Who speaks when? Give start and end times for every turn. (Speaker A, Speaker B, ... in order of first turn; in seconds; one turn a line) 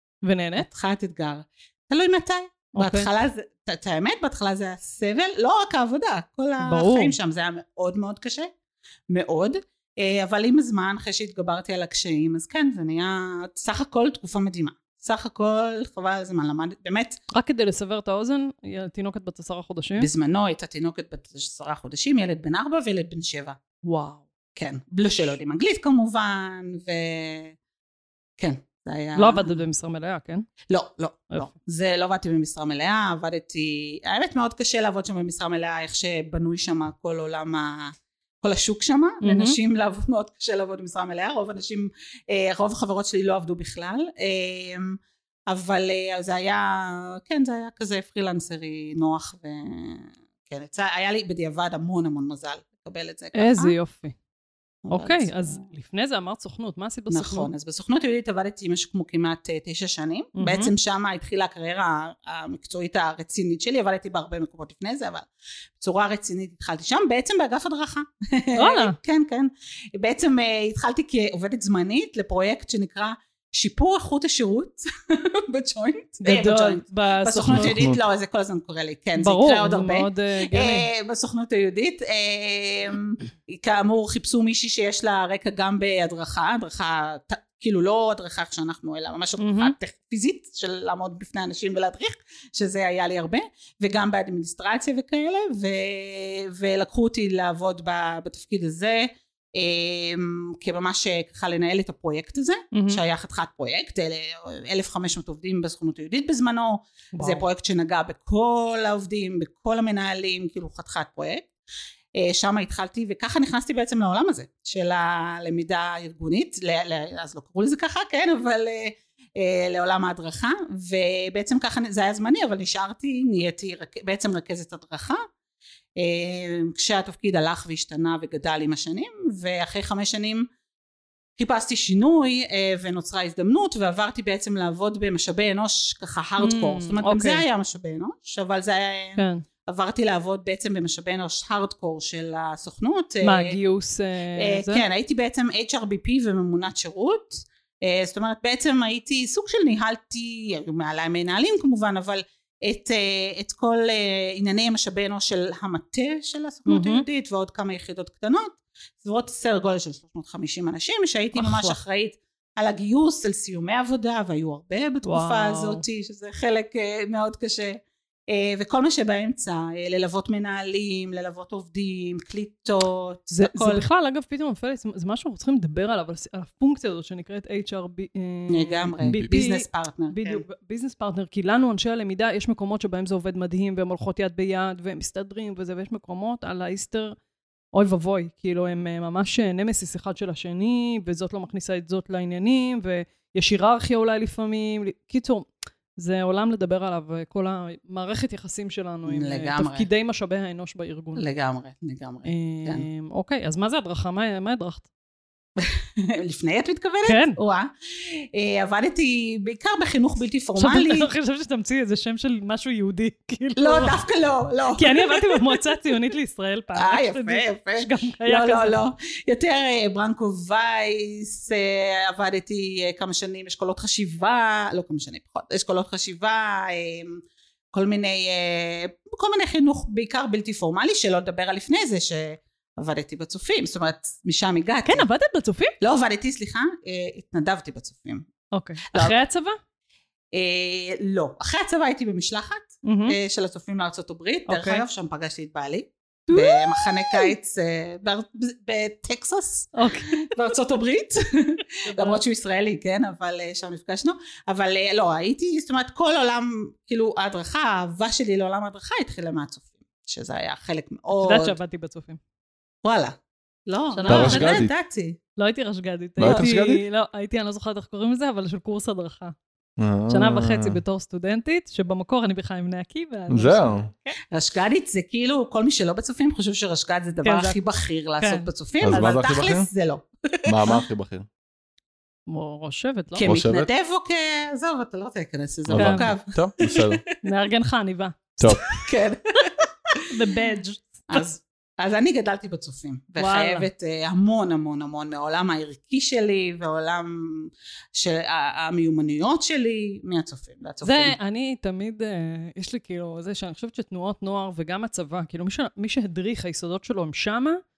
Speaker A: 0.2-0.7
Speaker B: 0.6-8.5
Speaker A: 2.8-3.1
Speaker A: 6.6-7.2
Speaker B: 9.1-17.2
Speaker A: 17.3-20.1
Speaker B: 20.0-23.6
Speaker A: 23.8-24.2
Speaker B: 24.6-27.6
Speaker B: 28.4-29.6
Speaker A: 29.2-30.5
Speaker B: 30.7-53.8
Speaker A: 39.2-39.6
Speaker A: 53.4-54.2
Speaker B: 54.9-55.7
Speaker A: 54.9-57.5
Speaker B: 57.1-111.5
Speaker A: 60.4-60.7
Speaker A: 68.6-69.0
Speaker A: 76.2-77.7
Speaker C: 77.5-78.0
Speaker A: 79.2-80.9
Speaker A: 89.4-89.8
Speaker A: 102.7-103.0
Speaker A: 107.2-107.4
Speaker B: 112.2-125.2
Speaker B: 126.0-130.5
Speaker B: 131.4-143.6
Speaker A: 136.4-137.4
Speaker A: 139.2-139.4
Speaker A: 143.2-144.8
Speaker B: 144.4-173.8
Speaker A: 156.7-157.1
Speaker A: 161.3-161.8
Speaker A: 165.0-165.8
Speaker A: 173.3-187.2
Speaker B: 178.5-180.4
Speaker A: 187.7-201.2
Speaker B: 199.1-199.9
Speaker B: 201.2-202.9
Speaker A: 202.3-204.9
Speaker B: 205.6-211.1
Speaker A: 207.1-207.4
Speaker A: 210.6-214.0
Speaker B: 213.6-215.6
Speaker A: 214.8-218.8
Speaker B: 216.8-235.1
Speaker A: 234.8-235.8
Speaker B: 235.8-238.3
Speaker A: 238.5-239.6
Speaker B: 240.3-261.6
Speaker A: 242.8-243.2
Speaker A: 244.5-244.8
Speaker A: 246.3-247.3
Speaker A: 249.8-250.3
Speaker A: 251.9-252.2
Speaker A: 261.1-262.2
Speaker B: 262.8-265.2
Speaker A: 263.9-264.6
Speaker C: 264.1-264.7
Speaker A: 265.4-269.4
Speaker C: 266.2-266.8
Speaker B: 266.2-266.5
Speaker C: 269.8-270.8
Speaker A: 270.1-274.1
Speaker C: 273.3-273.9
Speaker B: 274.3-280.8
Speaker A: 277.2-277.6
Speaker A: 278.2-279.1
Speaker C: 278.8-279.7
Speaker C: 280.5-281.3
Speaker A: 282.3-283.3
Speaker B: 283.1-287.1
Speaker C: 283.2-283.7
Speaker C: 285.7-287.0
Speaker A: 285.8-286.1
Speaker A: 287.2-288.8
Speaker C: 288.4-288.7
Speaker B: 288.7-289.9
Speaker A: 290.0-291.2
Speaker B: 291.1-301.2
Speaker A: 293.2-293.7
Speaker A: 300.8-307.6